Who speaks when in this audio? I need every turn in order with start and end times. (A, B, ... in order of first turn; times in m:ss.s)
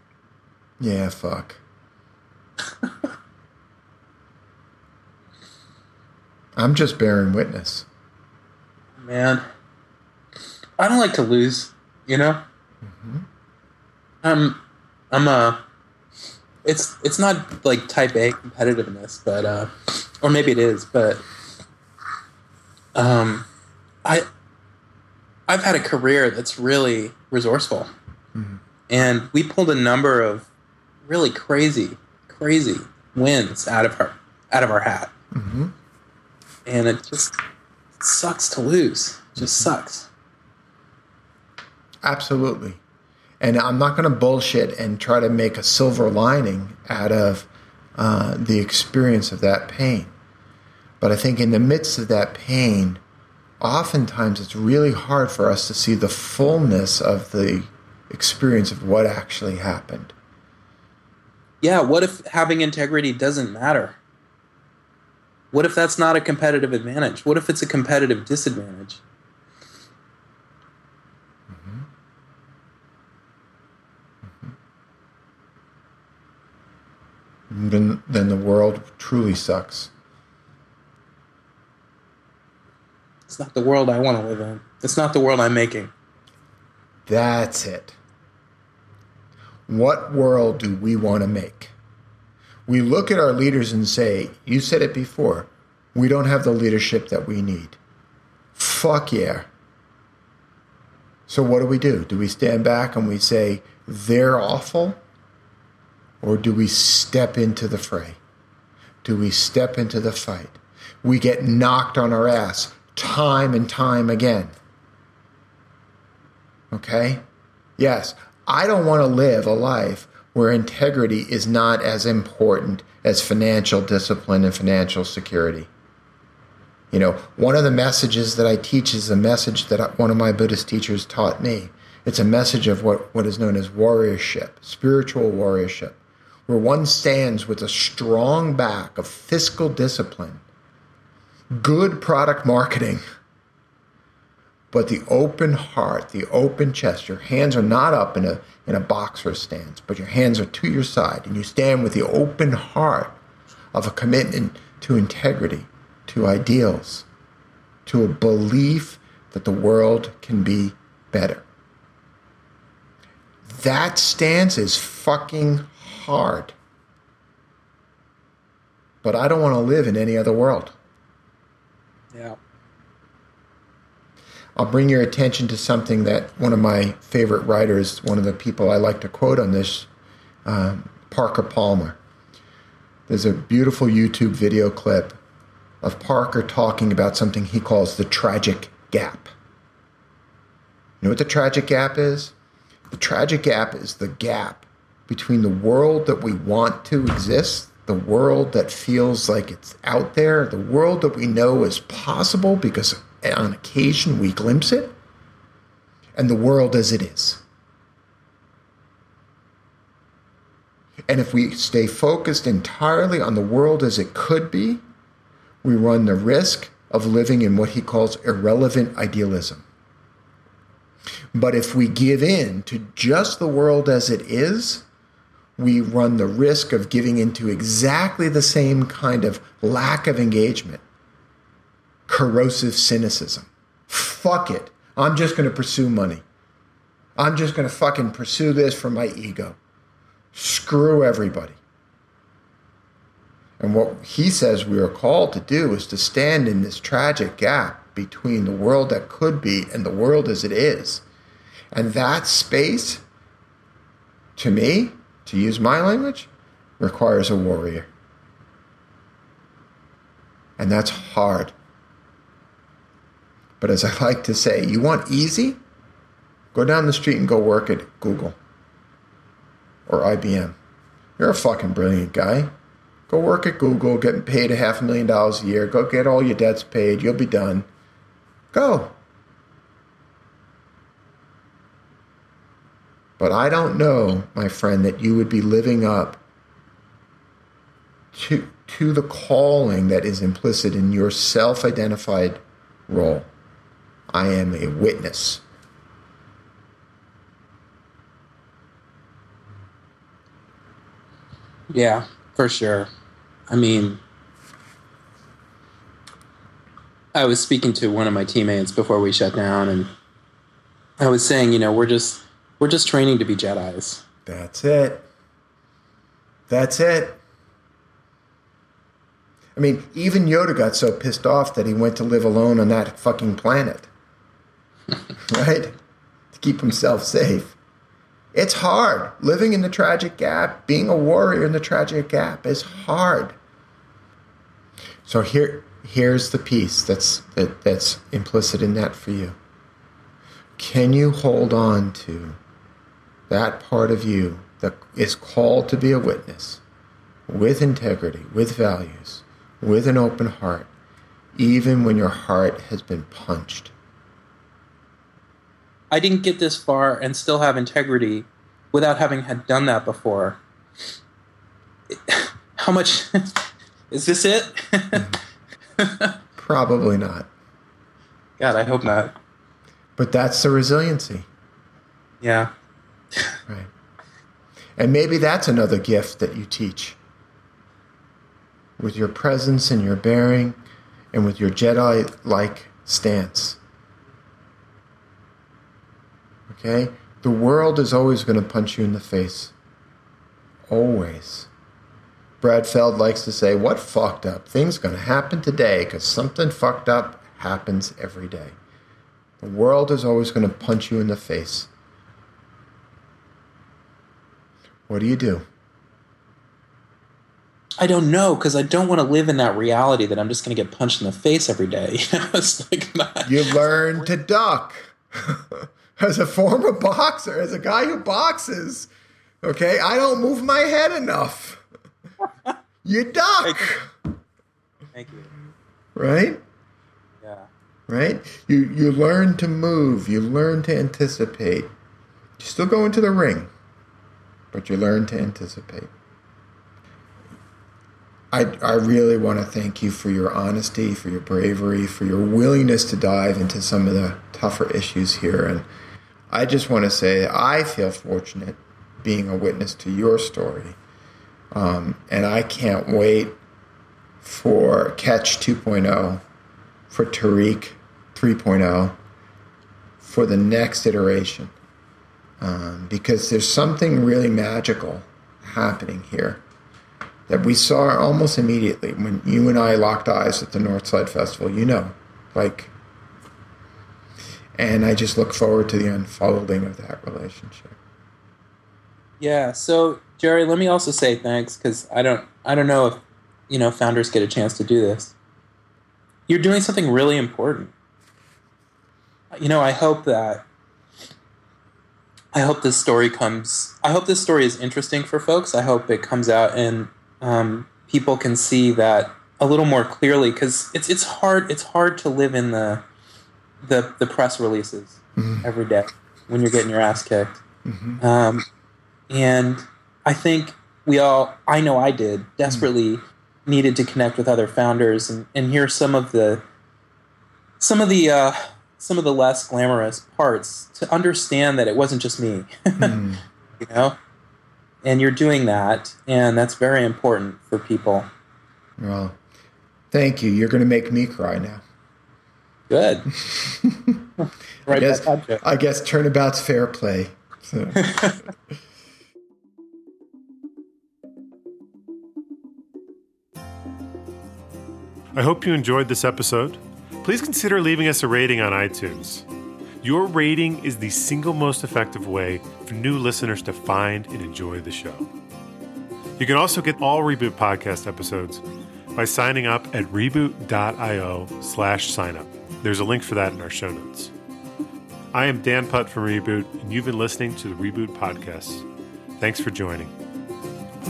0:00.8-0:01.6 A
0:06.6-0:07.9 A
0:09.0-0:09.4 B
0:10.8-0:12.4 B
0:12.8-0:13.3 A
0:14.2-0:14.6 B
0:15.1-0:15.6 B
0:16.6-0:21.2 B
0:23.0-0:23.5 B
0:25.5-0:27.9 B
0:28.4-0:28.6 A
0:28.9-0:30.5 B
0:31.1-0:35.1 B
0:35.3-0:35.7 A
0:36.7-0:37.4 B
0:38.0-0:40.1 B
0:42.0-0:42.8 A
0:43.4-0:50.1 A
0:51.0-0:53.0 A
0:53.6-1:00.1 A
1:01.6-1:04.0 B
1:05.5-1:09.0 B
1:11.5-1:11.8 A
1:17.5-1:19.9 A
1:23.3-1:25.9 B
1:27.1-1:28.0 A
1:29.7-1:31.7 A
1:32.7-1:37.8 A
1:38.6-1:39.5 A
1:41.3-1:45.0 A
1:46.2-1:48.2 A
1:49.0-1:54.5 A
1:56.7-1:57.2 A
1:57.8-2:05.7 A
2:06.9-2:20.4 A
2:21.5-2:23.0 A
2:24.7-2:33.2 A
2:33.7-2:37.1 A
2:37.9-2:41.4 A
2:43.5-2:46.6 A
2:49.0-2:50.8 A
2:54.6-2:59.9 A
3:00.4-3:02.0 A
3:03.1-3:05.2 A
3:05.8-3:09.3 A
3:11.0-3:12.3 A
3:12.9-3:25.0 A
3:26.2-3:27.4 A
3:31.1-3:34.8 A
3:35.6-3:39.6 A
3:41.3-3:44.9 A
3:45.6-3:50.8 A
3:52.1-3:56.2 A
3:57.2-3:59.6 A
4:00.3-4:01.6 A
4:03.6-4:11.0 A
4:11.7-4:13.0 A
4:14.4-4:17.9 A
4:20.6-4:21.5 A
4:23.6-4:25.6 A
4:26.5-4:28.4 A
4:29.9-4:30.6 A
4:31.2-4:32.5 A
4:33.1-4:37.7 A
4:38.5-4:38.9 A
4:43.2-4:46.2 A
4:48.1-4:53.3 A
4:54.1-4:55.4 A
5:01.7-5:02.9 B
5:03.5-5:04.0 B
5:07.1-5:09.9 B
5:11.0-5:14.0 B
5:14.3-5:15.1 A
5:16.5-5:17.2 A
5:19.6-5:23.9 A
5:25.2-5:25.8 A
5:26.3-5:27.6 A
5:28.3-5:33.4 A
5:35.0-5:39.4 A
5:40.6-5:42.4 A
5:43.3-5:46.6 A
5:47.3-5:50.7 A
5:51.4-5:53.7 A
5:55.9-6:00.4 B
6:01.9-6:05.2 B
6:05.8-6:06.1 B
6:06.4-6:07.3 A
6:08.4-6:09.1 B
6:10.0-6:11.3 A
6:12.2-6:12.5 B
6:14.8-6:17.0 A
6:18.8-6:20.6 A
6:21.1-6:23.6 A
6:26.5-6:29.5 A
6:30.7-6:31.5 A
6:32.4-6:38.6 A
6:39.4-6:41.7 A
6:44.9-6:45.4 A
6:47.8-6:54.0 B
6:53.2-6:58.9 A
6:59.4-7:01.6 A
7:02.8-7:03.9 A
7:03.4-7:03.7 B
7:04.9-7:05.3 B
7:06.0-7:06.4 A
7:07.2-7:07.5 B
7:07.9-7:11.7 A
7:12.4-7:13.5 A
7:14.5-7:15.9 A
7:18.3-7:25.7 A
7:26.3-7:30.8 A
7:31.5-7:33.4 A
7:34.2-7:36.2 A
7:36.9-7:39.0 A
7:40.0-7:41.5 A
7:42.4-7:46.4 A
7:47.3-7:52.7 A
7:54.6-7:57.8 A
7:59.2-8:05.2 B
8:06.3-8:07.7 B
8:09.3-8:10.4 B
8:12.3-8:22.8 B
8:23.6-8:27.4 B
8:25.2-8:25.4 A
8:27.6-8:28.0 A
8:28.0-8:28.5 B
8:29.1-8:36.4 B
8:37.6-8:43.0 B
8:42.8-8:43.2 A
8:43.6-8:44.0 B
8:44.8-8:48.1 B
8:48.8-8:49.2 A
8:49.9-8:51.6 A
8:52.7-8:53.1 B
8:53.2-8:54.1 A
8:54.2-8:55.4 B
8:54.7-8:58.3 A
8:57.8-8:58.2 B
9:05.2-9:09.2 C
9:09.8-9:15.1 C
9:16.2-9:18.4 C
9:19.0-9:24.1 C
9:25.1-9:28.7 C
9:29.2-9:29.9 C